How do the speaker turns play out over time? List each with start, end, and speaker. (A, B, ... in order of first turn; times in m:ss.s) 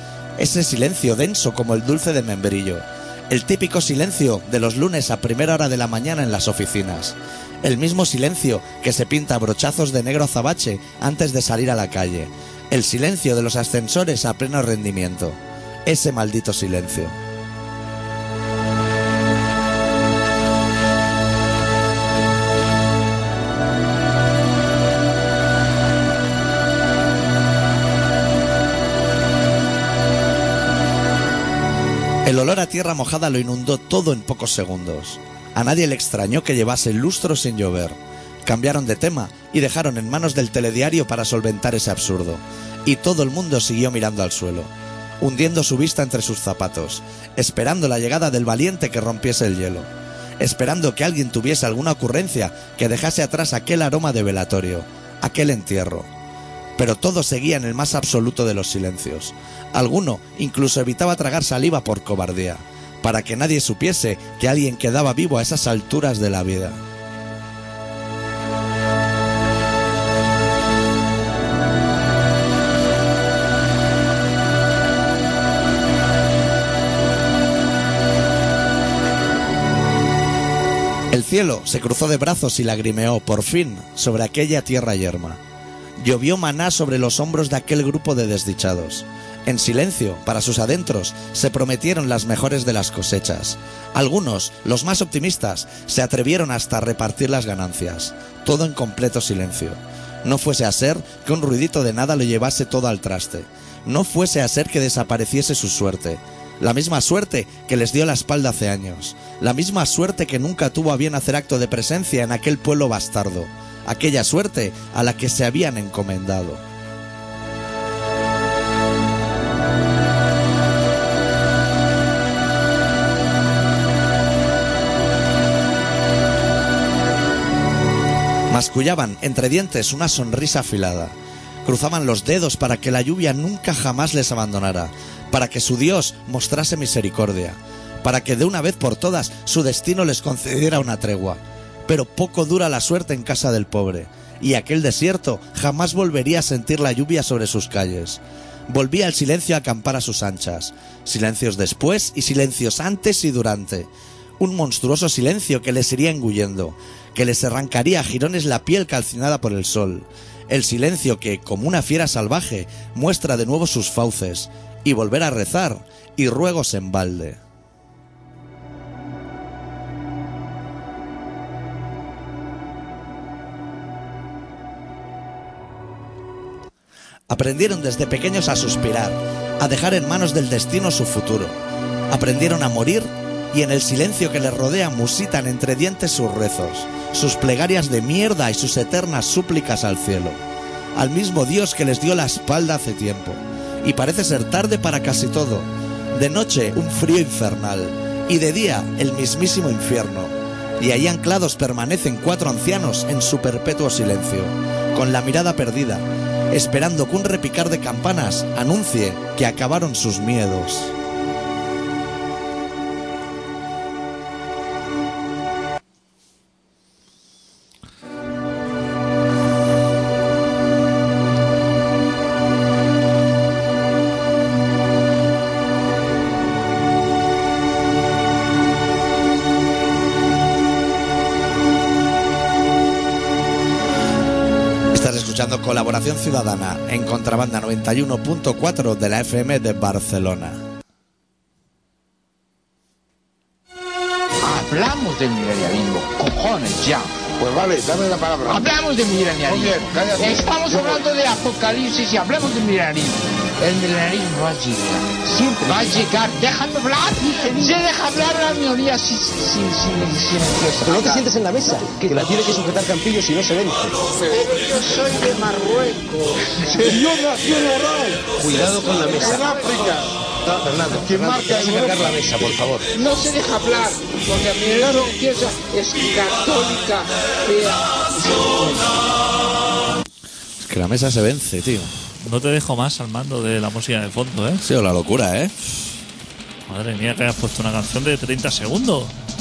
0:00.4-0:17.2 A
0:32.2-0:44.7 A
0:45.2-0:49.9 A
0:50.4-0:56.1 A
0:56.8-1:06.8 A
1:21.1-1:25.4 A
1:26.0-1:56.6 A
2:08.5-2:47.4 A
2:57.3-3:01.6 A
3:02.1-3:10.4 A
3:10.9-3:30.9 A
3:54.9-4:00.6 A
4:04.4-4:07.2 B
4:07.4-4:08.6 C
4:08.5-4:21.2 B
4:09.5-4:11.0 C
4:20.8-4:24.0 D
4:24.3-4:25.4 C
4:24.4-4:26.7 B
4:26.7-4:32.1 C
4:28.4-4:29.4 D
4:30.9-4:32.9 D
4:33.0-4:33.9 B
4:34.6-4:37.8 B
4:34.8-4:35.1 C
4:40.6-4:41.9 A
4:42.2-4:44.6 E
4:44.6-4:45.7 A
4:46.7-4:49.1 E